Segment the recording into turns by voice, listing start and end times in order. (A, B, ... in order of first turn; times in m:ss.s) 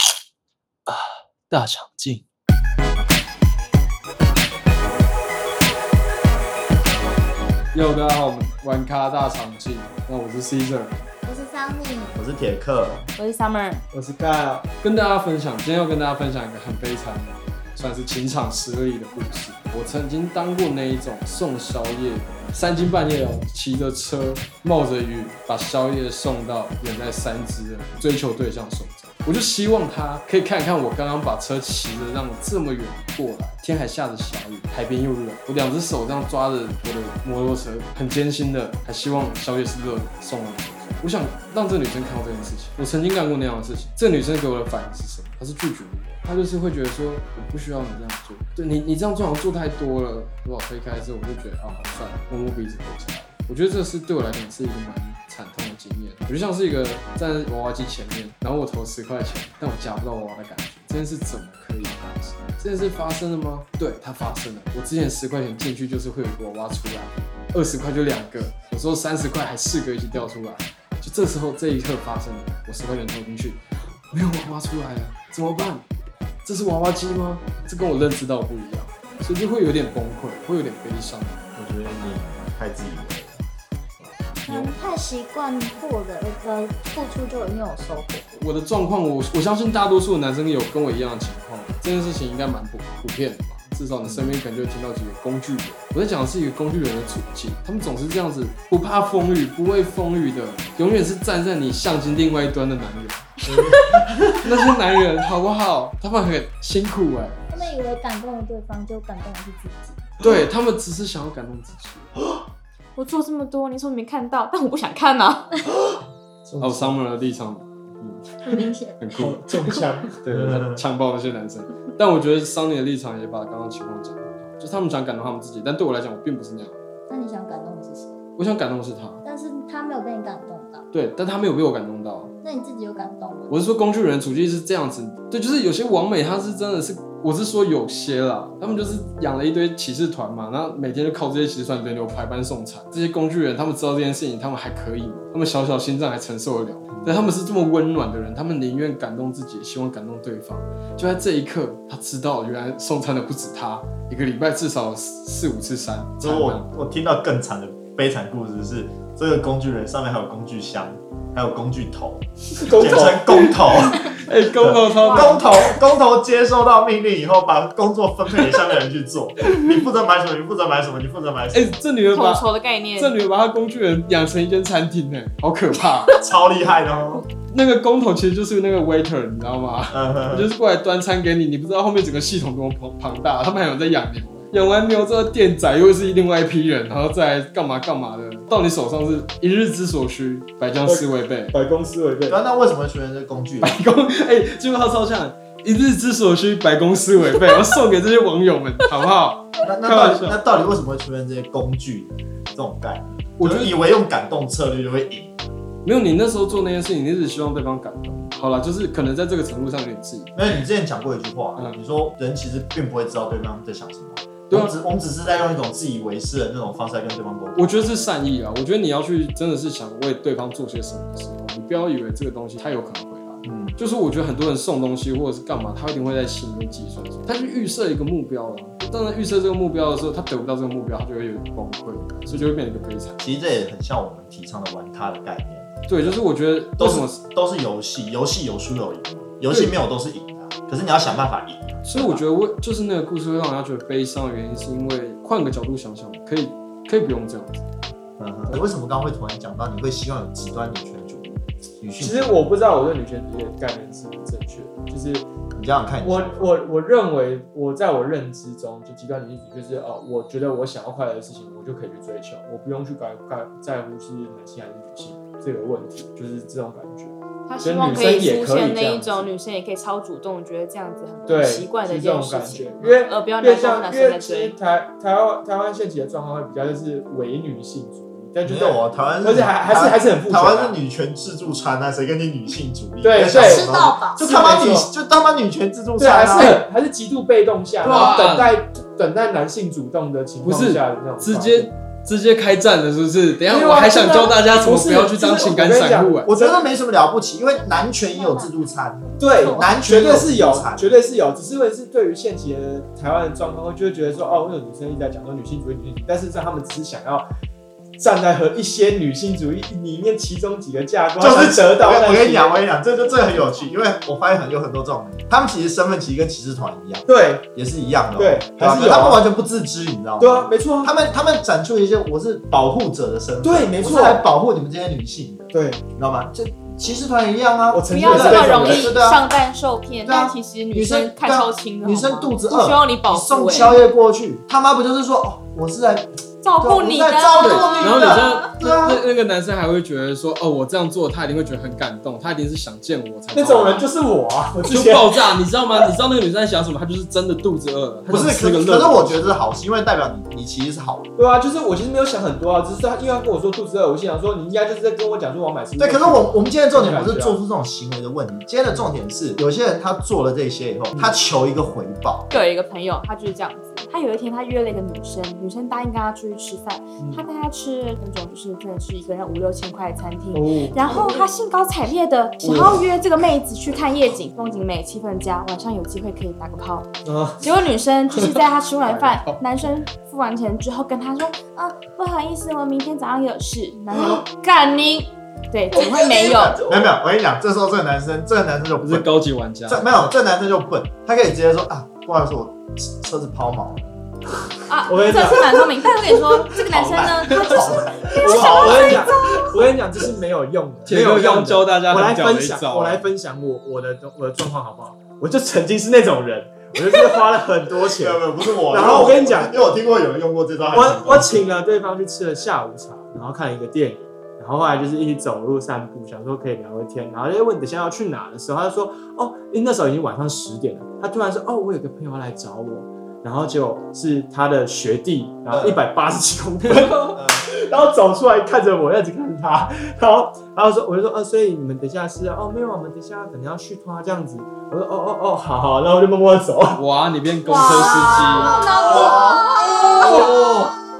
0:01.5-0:02.2 A
0:07.7-0:11.1 B
0:11.2-0:12.2 C
0:12.2-0:13.1 D
0:13.2-0:13.8 E
0:13.9-0:14.7 A
0:14.8-1:13.6 B
1:14.1-1:15.8 B
1:16.4-1:22.2 B
1:21.6-1:23.4 D
1:24.0-1:24.7 D
1:24.5-1:28.2 C
1:28.3-1:43.4 B
1:34.0-1:34.4 D
1:43.4-1:44.4 D
1:44.4-1:47.5 B
1:47.5-1:50.1 C
1:50.2-1:52.1 B
1:53.0-1:55.6 E
1:55.7-1:57.0 A
1:56.6-1:58.4 B
1:58.4-1:59.0 C
1:59.0-2:06.9 B
1:59.2-2:00.5 A
2:00.3-2:00.8 D
2:07.1-2:08.2 C
2:08.4-2:09.2 B
2:09.2-2:10.8 C
2:10.9-2:12.3 B
2:12.4-2:13.6 C
2:13.5-2:36.6 B
2:27.0-2:27.3 D
2:36.2-2:51.8 D
2:42.6-2:43.6 A
2:43.8-2:45.4 B
2:45.0-2:45.3 E
2:51.5-2:52.5 B
2:52.1-2:53.1 E
2:53.0-2:56.2 B
2:56.2-2:57.2 D
2:57.5-3:11.5 B
2:59.9-3:00.5 D
3:10.8-3:12.4 A
3:12.3-3:13.8 D
3:13.6-3:20.4 B
3:19.6-3:25.5 D
3:23.4-3:23.8 B
3:25.8-3:30.3 B
3:30.4-3:37.9 D
3:34.5-3:34.8 B
3:37.6-3:53.3 B
3:43.4-3:43.8 D
3:53.2-3:56.2 D
3:55.9-3:57.2 B
3:56.8-4:02.2 D
4:01.9-4:07.6 B
4:08.2-4:12.4 D
4:12.0-4:15.3 A
4:15.6-4:16.5 D
4:16.0-4:29.3 A
4:27.5-4:34.6 E
4:31.3-4:40.8 A
4:38.4-4:46.6 D
4:43.0-4:44.9 A
4:43.3-4:44.2 C
4:46.0-4:51.7 A
4:46.4-4:46.6 B
4:47.8-4:48.6 B
4:47.8-4:48.2 D
4:50.4-4:56.3 B
4:53.5-4:56.6 A
4:56.3-5:00.9 D
4:58.1-4:58.5 C
4:59.2-5:07.3 A
4:59.2-4:59.7 C
5:08.0-5:12.6 A
5:11.2-5:29.2 D
5:13.2-5:13.7 C
5:17.1-5:17.5 A
5:18.2-5:19.2 A
5:20.2-5:20.9 A
5:23.4-5:24.2 A
5:25.5-5:25.8 A
5:27.7-5:28.9 A
5:27.9-5:33.8 E
5:30.0-5:39.0 D
5:36.4-5:38.5 E
5:37.7-5:43.9 B
5:43.3-5:45.3 A
5:44.6-5:49.3 B
5:48.1-5:48.8 A
5:48.1-5:51.1 D
5:51.2-5:57.4 A
5:55.8-6:02.3 D
6:02.3-6:16.9 E
6:07.0-6:07.2 A
6:10.3-6:11.2 A
6:12.4-6:12.8 A
6:17.0-6:17.5 A
6:17.4-6:26.7 E
6:18.8-6:19.4 B
6:25.7-6:29.1 D
6:28.8-6:29.9 B
6:29.7-6:33.9 D
6:34.7-6:39.4 E
6:34.9-6:35.6 A
6:36.5-6:39.4 D
6:38.1-6:49.6 A
6:40.9-6:43.1 B
6:48.0-6:51.4 D
6:50.7-7:16.8 A
7:05.5-7:05.8 D
7:06.7-7:07.0 B
7:07.2-7:07.4 D
7:16.8-7:18.6 B
7:17.5-7:20.3 E
7:17.6-7:20.3 C
7:18.9-7:19.4 D
7:20.0-7:20.7 D
7:20.0-7:20.5 A